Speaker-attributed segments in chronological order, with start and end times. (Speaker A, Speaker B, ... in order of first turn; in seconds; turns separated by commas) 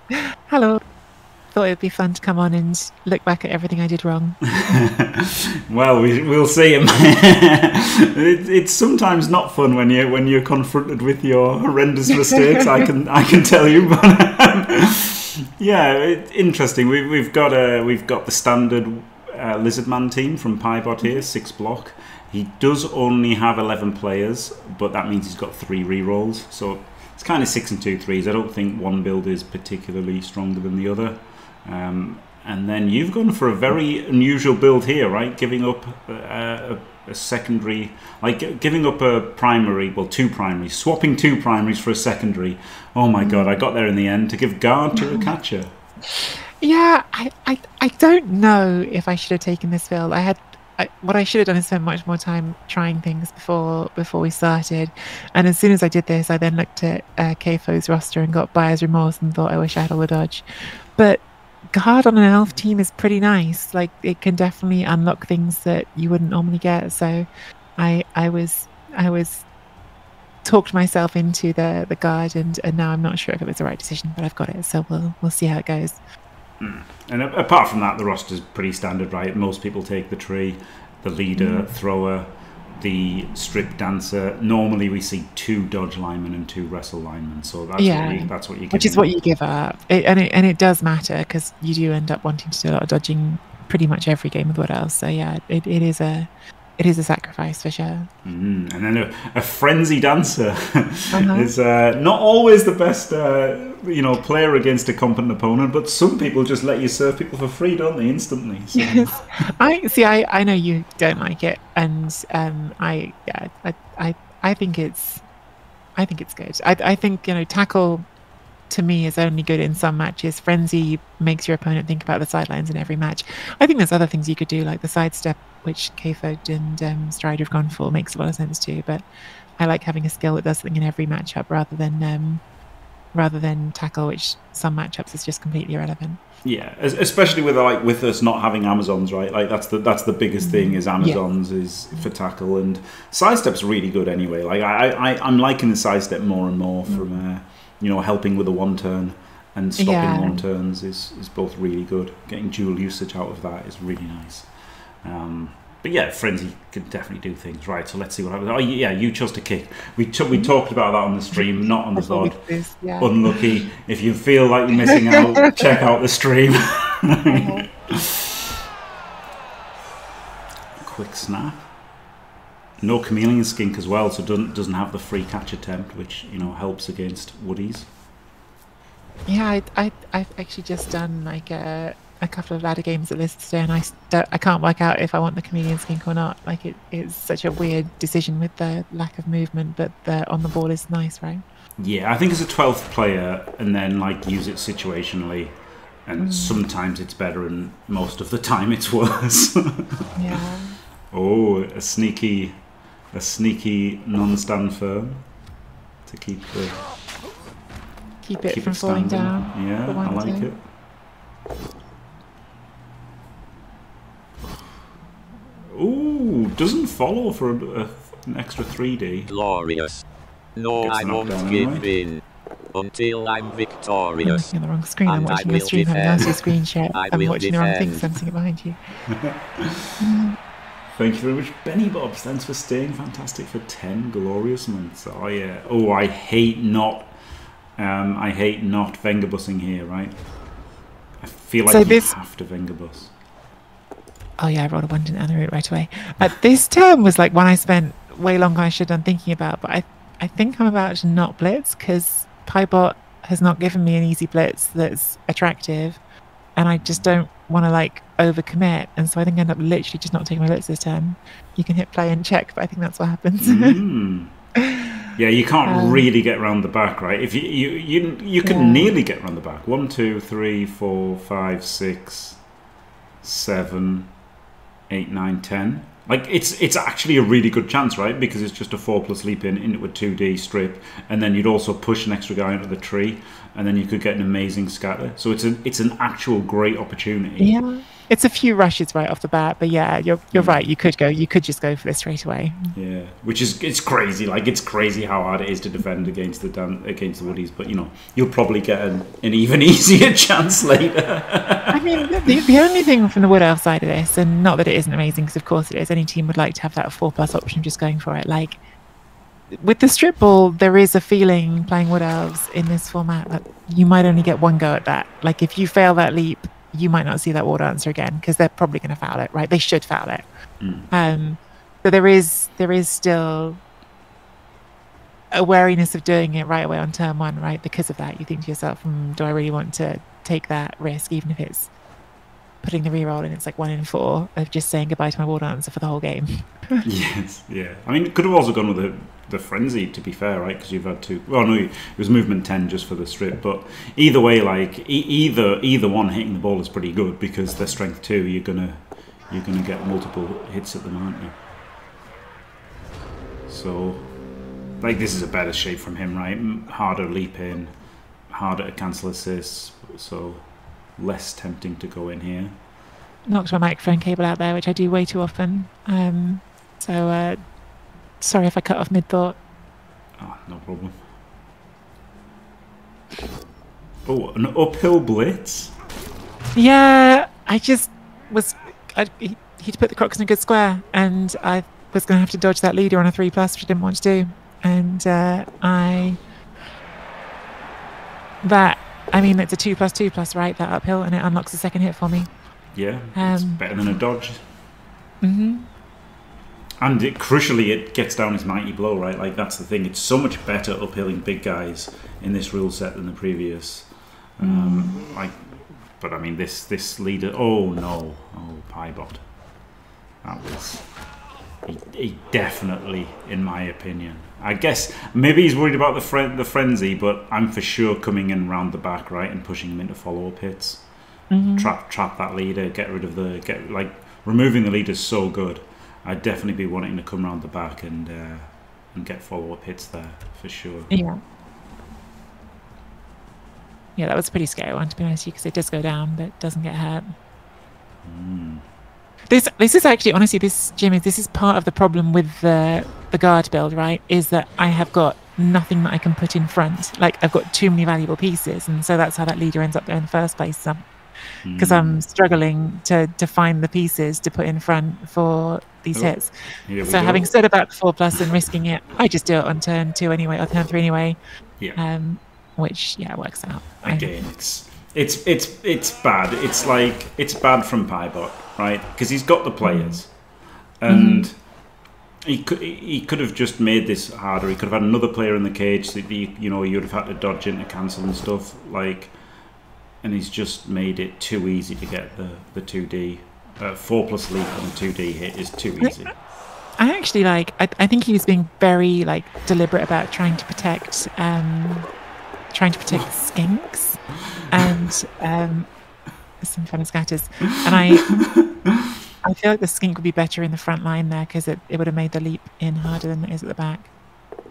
Speaker A: 0.1-0.8, Speaker A: 1.5-4.4, Speaker B: 4.5-45.7, Speaker A: 43.2-43.5, Speaker A: 44.9-45.3, Speaker A: 46.0-69.5, Speaker A: 70.4-76.0, Speaker B: 76.6-89.1, Speaker A: 81.4-81.7, Speaker A: 87.8-98.1, Speaker B: 98.2-109.5, Speaker A: 101.1-101.5, Speaker A: 108.7-115.2, Speaker A: 116.0-118.1, Speaker A: 118.7-129.0, Speaker A: 129.6-132.4, Speaker A: 133.1-136.2, Speaker B: 136.4-162.4, Speaker A: 140.4-141.2, Speaker A: 146.9-147.2, Speaker A: 149.8-150.4, Speaker A: 161.3-163.4, Speaker B: 163.0-168.4, Speaker A: 164.8-165.6, Speaker A: 167.3-167.7, Speaker B: 170.8-171.7, Speaker B: 172.8-177.9, Speaker A: 179.2-191.4, Speaker B: 191.8-200.1, Speaker A: 196.2-196.6, Speaker A: 200.2-200.8, Speaker B: 201.1-205.4, Speaker B: 206.0-206.8, Speaker A: 208.2-210.5, Speaker B: 208.5-210.6, Speaker B: 215.7-219.3, Speaker C: 219.3-220.0, Speaker C: 220.6-222.2, Speaker B: 220.8-221.9, Speaker C: 222.7-224.5, Speaker A: 224.2-228.8, Speaker C: 225.1-228.0, Speaker B: 229.1-229.9, Speaker A: 230.0-230.4, Speaker B: 230.9-237.1, Speaker B: 237.8-240.2, Speaker B: 241.2-243.1, Speaker A: 241.7-242.1, Speaker A: 244.4-256.0, Speaker A: 256.6-263.8, Speaker B: 256.7-257.1, Speaker B: 263.4-264.3, Speaker A: 264.6-265.0, Speaker B: 265.1-272.4, Speaker A: 265.6-266.1, Speaker A: 268.4-268.9, Speaker B: 273.2-274.1, Speaker B: 274.9-287.5, Speaker A: 287.4-292.7, Speaker B: 290.3-290.6, Speaker B: 292.7-301.8, Speaker A: 301.7-308.6, Speaker A: 309.5-320.3, Speaker B: 320.6-320.9, Speaker A: 320.9-323.6, Speaker A: 325.3-331.7, Speaker A: 332.6-336.8, Speaker B: 336.8-351.4, Speaker B: 353.5-354.1, Speaker B: 354.8-362.6, Speaker A: 363.2-367.4, Speaker A: 368.2-369.4, Speaker B: 370.2-371.0, Speaker B: 374.1-375.7, Speaker A: 376.5-386.2, Speaker A: 388.4-392.3, Speaker B: 392.7-394.4, Speaker A: 393.1-393.6, Speaker A: 395.2-395.7, Speaker B: 396.8-409.2, Speaker A: 404.4-405.0, Speaker B: 410.2-411.0, Speaker B: 411.6-420.9, Speaker A: 421.3-421.7, Speaker B: 421.5-430.9, Speaker A: 430.9-431.2, Speaker A: 433.9-437.1, Speaker B: 438.0-438.6, Speaker A: 439.3-450.9, Speaker B: 451.4-452.0, Speaker A: 451.6-461.2, Speaker B: 456.7-457.3, Speaker A: 461.8-464.2, Speaker B: 463.8-471.4, Speaker A: 469.6-470.0, Speaker A: 470.9-471.3, Speaker B: 472.2-479.2, Speaker B: 480.0-486.1, Speaker A: 485.8-486.0, Speaker A: 486.8-491.9, Speaker A: 492.5-495.7, Speaker A: 496.4-498.2, Speaker B: 498.1-498.5, Speaker A: 499.2-503.9